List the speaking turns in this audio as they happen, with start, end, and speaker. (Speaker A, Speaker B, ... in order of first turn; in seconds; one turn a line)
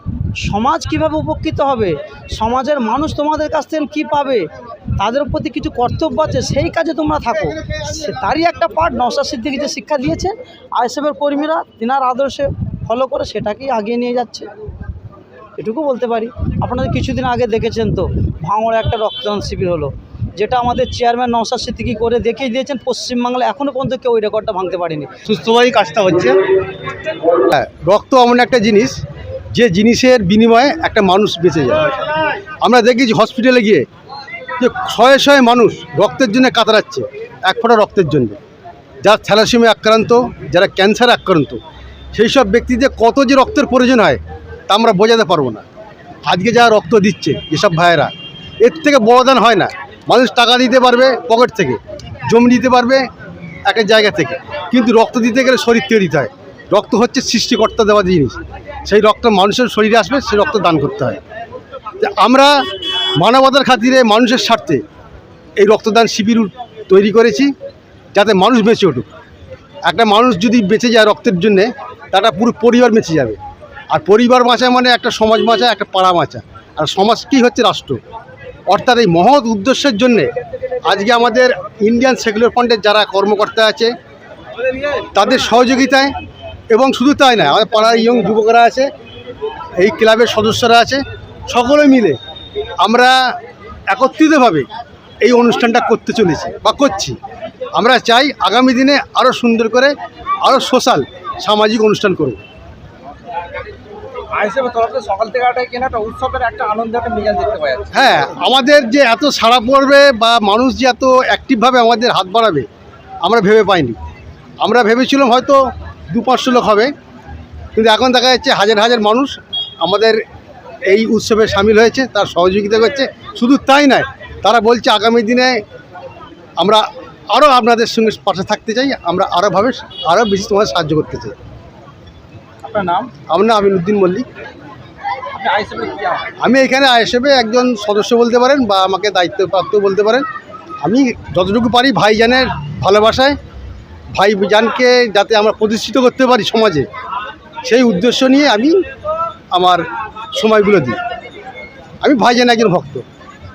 Speaker A: 0.4-14.5
Speaker A: 15.6-25.1
Speaker B: 27.5-29.0
Speaker B: 29.5-32.0
Speaker B: 32.6-33.9
Speaker B: 34.6-38.4
Speaker B: 39.0-41.6
Speaker B: 42.1-45.6
Speaker B: 46.3-48.1
Speaker B: 48.6-53.0
Speaker B: 53.7-61.2
Speaker B: 62.0-62.6
Speaker B: 63.2-64.8
Speaker B: 65.6-67.5
Speaker B: 68.1-69.1
Speaker B: 69.9-73.4
Speaker B: 73.9-78.0
Speaker B: 78.7-80.3
Speaker B: 80.8-83.9
Speaker B: 85.1-86.1
Speaker B: 86.7-88.9
Speaker B: 89.8-92.2
Speaker B: 92.8-93.2
Speaker B: 93.9-94.7
Speaker B: 95.2-97.2
Speaker B: 97.8-102.4
Speaker C: 104.4-107.8
Speaker B: 107.9-112.7
Speaker B: 113.2-114.0
Speaker B: 114.6-116.9
Speaker B: 117.8-120.2
Speaker B: 120.9-125.6
Speaker B: 126.6-131.3
Speaker C: 132.7-133.1
Speaker B: 133.3-134.3
Speaker C: 135.3-136.2
Speaker B: 136.4-140.3
Speaker B: 140.8-143.4
Speaker B: 144.2-146.9
Speaker B: 147.7-148.8
Speaker B: 149.5-149.8
Speaker B: 150.3-151.0
Speaker B: 152.0-153.0